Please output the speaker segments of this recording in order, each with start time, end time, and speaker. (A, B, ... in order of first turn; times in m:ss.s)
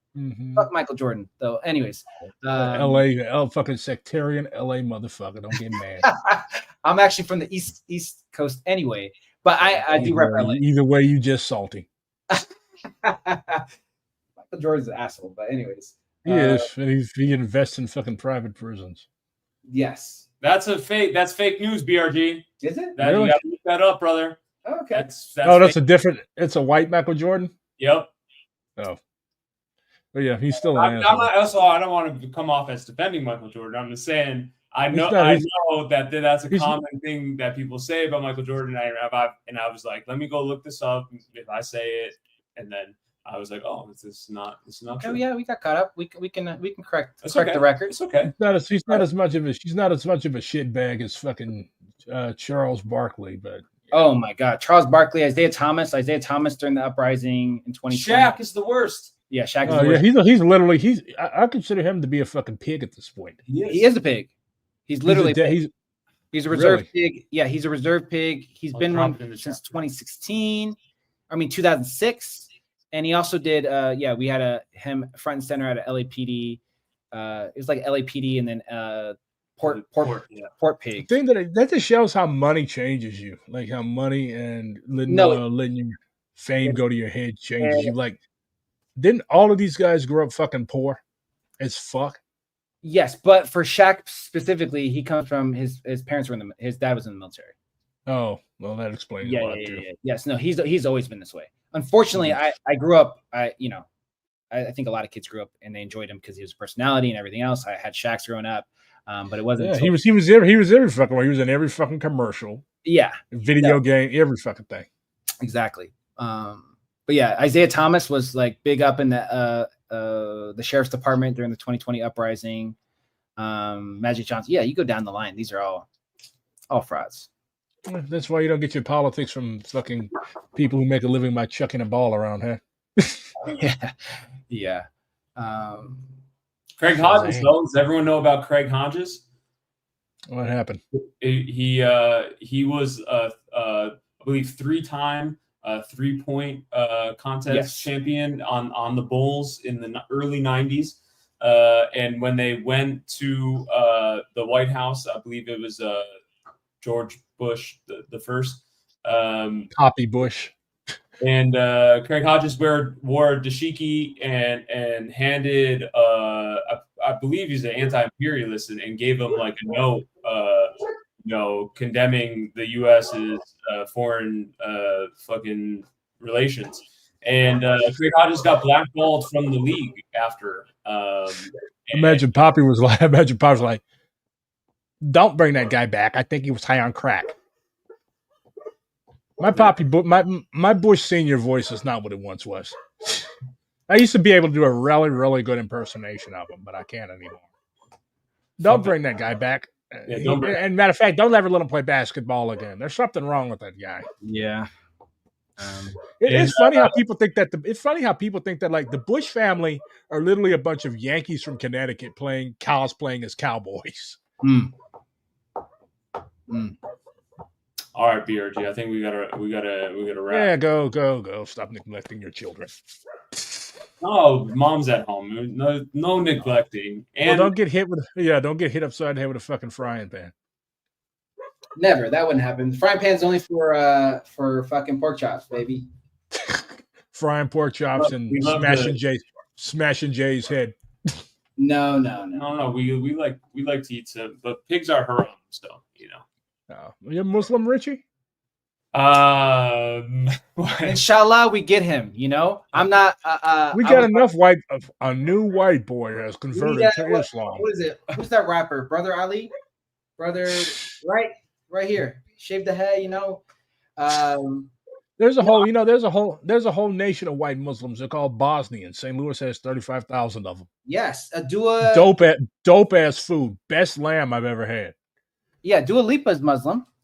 0:00.1-0:00.7 A
0:00.6-0:03.0 B
0:02.5-0:06.1 A
0:06.0-0:10.6 B
0:09.7-0:11.9 A
0:13.0-0:13.6 B
0:14.4-0:16.7 B
0:16.2-0:19.0 A
0:19.7-0:20.2 B
0:20.4-0:24.4 C
0:22.6-0:23.0 B
0:23.0-0:23.4 A
0:24.6-0:25.0 B
0:24.9-0:25.8 C
0:25.4-0:27.5 A
0:27.8-0:28.1 C
0:30.1-0:31.3 A
0:30.6-0:45.2 C
0:34.9-0:35.4 A
0:36.5-0:36.8 A
0:45.0-0:47.9 B
0:47.2-0:48.3 C
0:48.2-0:53.7 A
0:53.9-0:58.4 B
0:57.9-0:59.1 C
0:59.3-1:00.0 B
0:59.6-1:03.4 A
1:03.5-1:03.9 C
1:03.7-1:04.3 B
1:04.9-1:05.6 B
1:05.1-1:05.7 A
1:06.3-1:10.8 B
1:06.5-1:06.9 A
1:08.7-1:09.7 C
1:11.3-1:16.6 B
1:17.1-1:21.1 B
1:19.6-1:20.5 C
1:21.0-1:28.2 A
1:25.1-1:25.4 B
1:27.6-1:27.9 B
1:29.0-1:31.0 A
1:31.6-1:32.2 A
1:32.8-1:37.5 B
1:38.1-1:39.8 A
1:39.2-1:43.9 B
1:44.5-1:50.0 B
1:49.6-1:52.6 A
1:52.8-1:53.8 B
1:53.3-1:54.9 A
1:55.4-2:02.8 B
2:03.4-2:05.9 B
2:06.7-2:07.3 B
2:07.9-2:13.3 A
2:13.5-2:13.9 B
2:14.5-2:14.8 B
2:15.4-2:16.1 B
2:16.8-2:19.2 C
2:16.9-2:17.5 A
2:20.3-2:20.8 A
2:20.9-2:36.1 C
2:27.5-2:27.9 B
2:36.8-2:39.7 C
2:39.7-2:40.5 A
2:41.2-2:50.7 C
2:51.2-3:02.3 C
3:01.9-3:03.8 A
3:05.0-3:07.3 A
3:09.4-3:13.3 A
3:13.9-3:17.5 A
3:18.6-3:24.0 A
3:18.6-3:19.0 C
3:20.1-3:20.6 C
3:24.2-3:24.7 B
3:25.6-3:26.0 B
3:26.2-3:34.2 A
3:26.3-3:26.9 C
3:34.4-3:34.7 B
3:36.5-3:36.8 B
3:37.9-3:40.5 C
3:40.3-3:42.8 A
3:44.0-3:47.5 C
3:47.2-3:50.3 A
3:51.8-3:55.9 B
3:56.3-4:01.2 A
3:58.0-3:59.0 C
4:01.6-4:02.5 B
4:02.3-4:06.2 C
4:06.7-4:08.0 A
4:08.9-4:11.0 C
4:10.8-4:14.2 B
4:13.7-4:17.6 A
4:16.5-4:19.5 B
4:20.2-4:23.4 B
4:24.0-4:24.7 B
4:25.2-4:30.7 A
4:30.8-4:32.1 B
4:31.8-4:34.9 A
4:35.6-4:36.8 B